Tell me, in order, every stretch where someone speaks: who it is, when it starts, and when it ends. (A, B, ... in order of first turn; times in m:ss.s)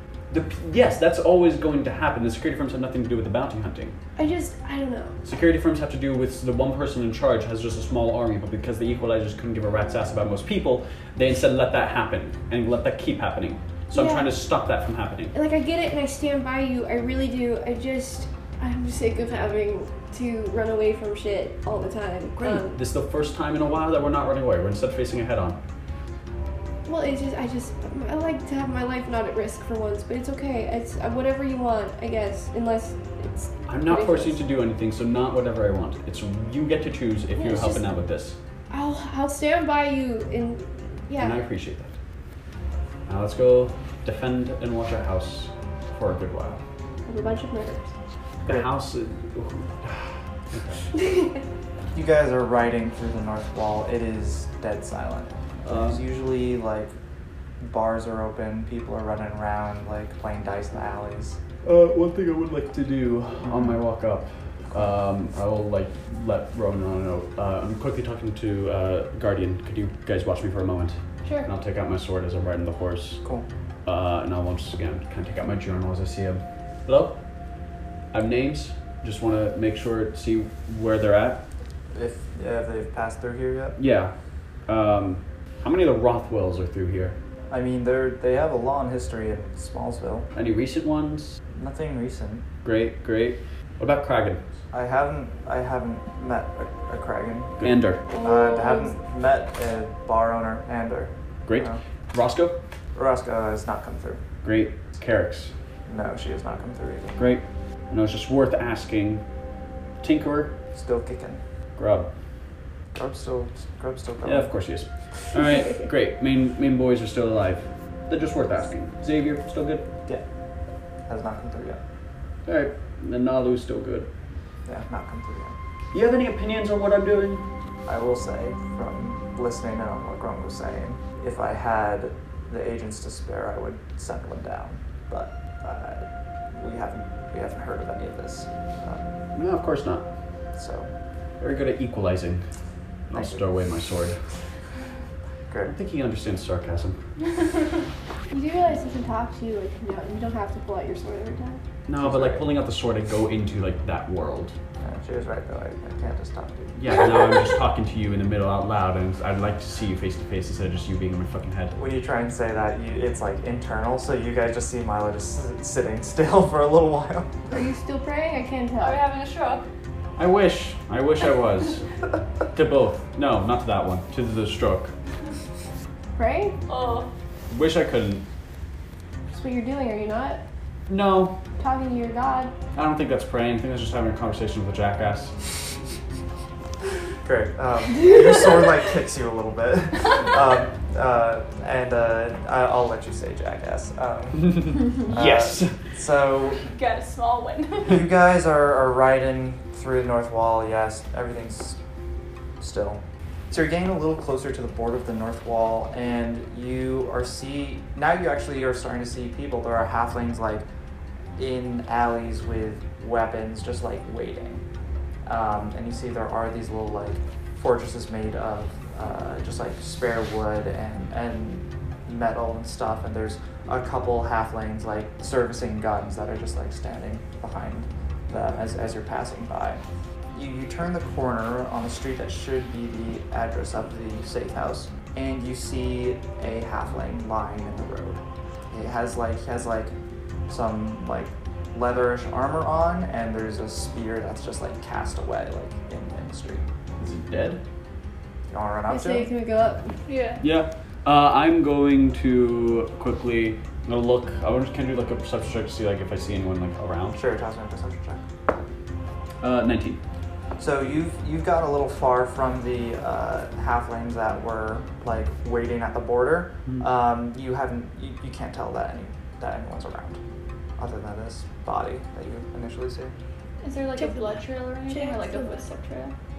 0:00.3-0:04.0 A
0:04.2-0:05.2 B
0:05.2-0:15.3 A
0:13.9-0:14.3 B
0:15.3-0:22.8 B
0:22.4-0:25.6 A
0:26.9-0:34.4 B
0:33.7-0:38.4 A
0:37.4-0:37.8 B
0:38.7-0:41.4 B
0:41.2-0:41.9 A
0:43.1-0:46.6 A
0:47.1-0:47.9 B
0:48.4-0:50.8 A
0:51.0-0:51.4 B
0:51.9-0:56.9 C
0:55.6-0:56.0 A
0:57.6-1:01.4 C
1:01.6-1:13.2 A
1:03.4-1:03.8 C
1:13.8-1:17.2 A
1:18.1-1:21.4 A
1:21.9-1:23.8 C
1:23.8-1:24.1 A
1:24.7-1:27.2 A
1:27.5-1:30.3 C
1:30.3-1:31.4 A
1:31.6-1:32.4 C
1:32.6-1:34.4 A
1:34.7-1:37.6 C
1:37.6-1:38.0 A
1:38.1-1:39.0 B
1:38.2-1:41.8 C
1:41.5-1:42.6 A
1:43.0-1:44.2 C
1:44.4-1:45.5 A
1:45.9-1:47.2 C
1:47.2-1:49.2 A
1:50.0-1:50.5 A
1:50.7-1:51.4 C
1:51.8-1:52.1 A
1:53.0-1:54.5 C
1:54.2-1:59.9 A
2:01.1-2:01.8 C
2:02.5-2:04.1 A
2:04.7-2:05.6 C
2:05.9-2:07.4 A
2:07.9-2:19.0 C
2:19.4-2:20.1 A
2:20.6-2:20.9 C
2:21.4-2:22.4 A
2:23.1-2:24.2 A
2:23.1-2:23.4 C
2:25.7-2:27.0 A
2:28.3-2:31.6 B
2:31.9-2:34.5 A
2:32.0-2:32.5 C
2:34.8-2:37.2 C
2:36.8-2:41.8 A
2:41.8-2:47.6 C
2:47.5-2:49.0 B
2:48.8-2:49.6 D
2:50.2-2:51.8 A
2:52.5-2:54.9 A
2:56.2-2:56.6 B
2:56.7-2:57.1 D
2:57.5-2:58.2 A
2:59.3-3:00.4 B
3:00.9-3:01.4 A
3:01.6-3:02.5 B
3:02.8-3:05.3 A
3:07.2-3:16.6 C
3:14.4-3:15.7 A
3:16.6-3:18.0 D
3:17.9-3:21.8 C
3:22.6-3:30.6 C
3:31.4-3:34.6 C
3:35.3-3:49.8 C
3:50.3-3:58.2 C
3:58.7-3:59.9 C
4:00.5-4:06.6 C
4:07.0-4:07.6 A
4:08.5-4:09.3 C
4:08.9-4:09.9 B
4:10.1-4:10.4 D
4:10.4-4:17.2 A
4:17.2-4:18.2 C
4:19.4-4:20.0 A
4:20.6-4:30.2 C
4:30.8-4:33.1 C
4:33.6-4:36.1 D
4:34.0-4:35.5 B